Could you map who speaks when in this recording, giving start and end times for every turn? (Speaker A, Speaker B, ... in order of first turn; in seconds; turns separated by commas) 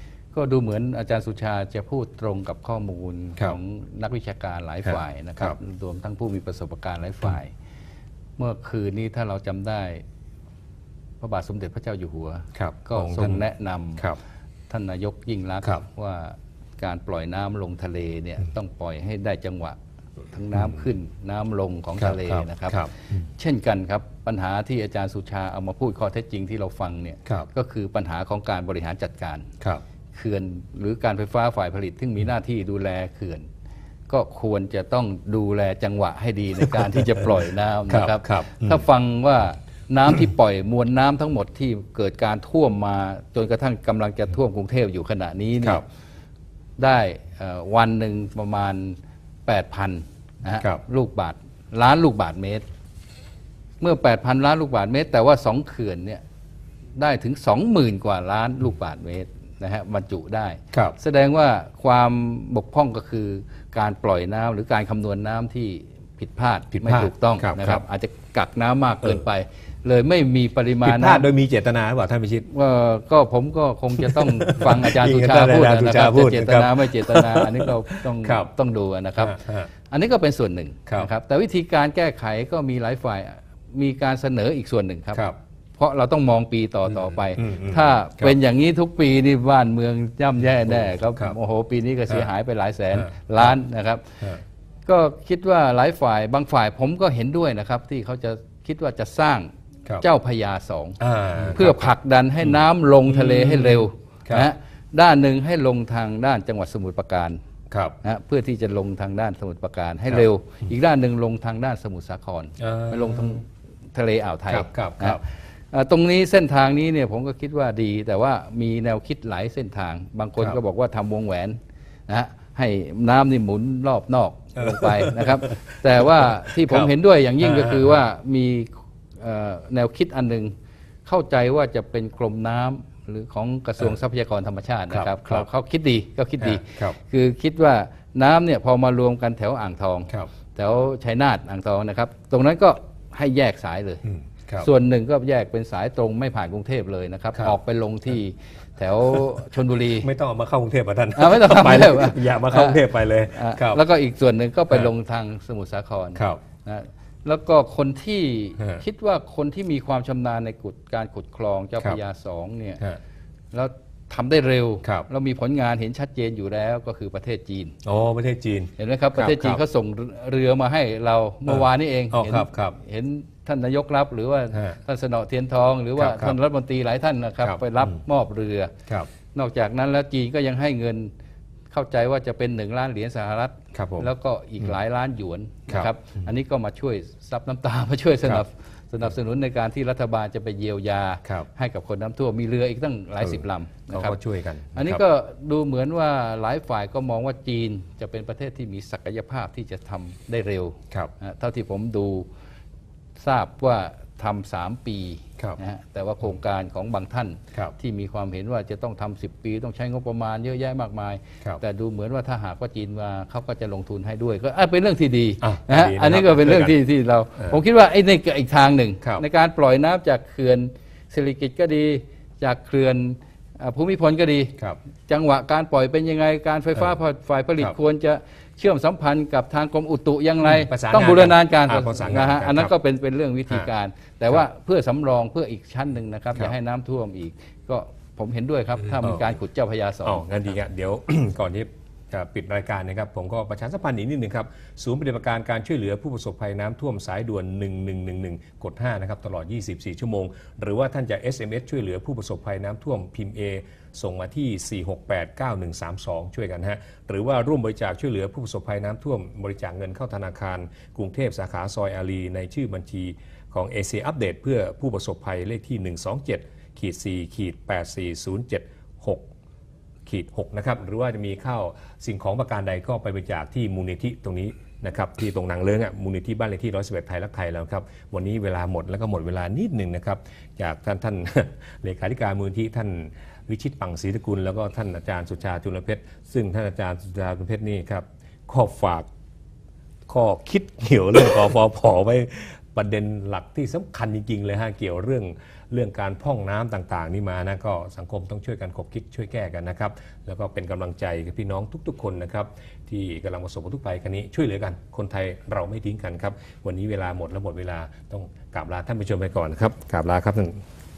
Speaker A: 0.3-7.5, Speaker B: 4.8-5.6, Speaker A: 8.4-10.0, Speaker A: 11.2-14.1, Speaker B: 12.5-13.4, Speaker A: 14.7-19.8, Speaker A: 20.3-22.8, Speaker B: 20.5-20.8, Speaker B: 22.0-23.3, Speaker A: 23.4-29.5, Speaker A: 30.1-33.5, Speaker A: 34.1-45.8, Speaker B: 37.9-38.9, Speaker A: 46.8-52.6, Speaker A: 53.8-56.2, Speaker A: 57.0-71.3, Speaker B: 66.7-67.8, Speaker B: 70.8-72.5, Speaker A: 72.5-85.3, Speaker B: 73.9-78.5, Speaker B: 79.2-79.7, Speaker B: 80.9-81.1, Speaker A: 85.8-94.1, Speaker B: 87.3-88.4, Speaker B: 90.7-91.4, Speaker B: 92.9-93.6, Speaker A: 94.9-99.5, Speaker A: 100.0-101.0, Speaker B: 101.0-101.9, Speaker A: 101.5-107.4, Speaker B: 102.5-104.5, Speaker B: 107.7-108.0, Speaker A: 108.0-121.6, Speaker B: 112.6-113.4, Speaker B: 114.5-115.2, Speaker A: 122.1-130.5, Speaker B: 124.6-128.0, Speaker A: 131.1-144.0, Speaker B: 134.9-135.5, Speaker B: 136.4-137.0, Speaker B: 144.0-144.7, Speaker A: 144.6-150.1, Speaker B: 149.0-153.8, Speaker A: 151.2-162.8, Speaker B: 156.2-156.4, Speaker A: 163.5-167.8, Speaker B: 164.8-165.1, Speaker B: 167.8-169.6, Speaker A: 168.8-178.7, Speaker B: 171.5-172.8, Speaker B: 174.5-174.8, Speaker B: 176.0-176.4, Speaker B: 177.4-178.0, Speaker B: 178.9-179.1, Speaker A: 179.3-181.1, Speaker A: 181.7-194.2, Speaker B: 183.7-184.8, Speaker B: 185.7-186.3, Speaker B: 193.2-195.0, Speaker A: 194.7-202.3, Speaker A: 203.2-240.4, Speaker B: 215.4-216.8, Speaker B: 230.4-232.8, Speaker B: 238.9-239.3, Speaker B: 240.0-269.3, Speaker B: 270.1-289.1, Speaker B: 290.1-310.6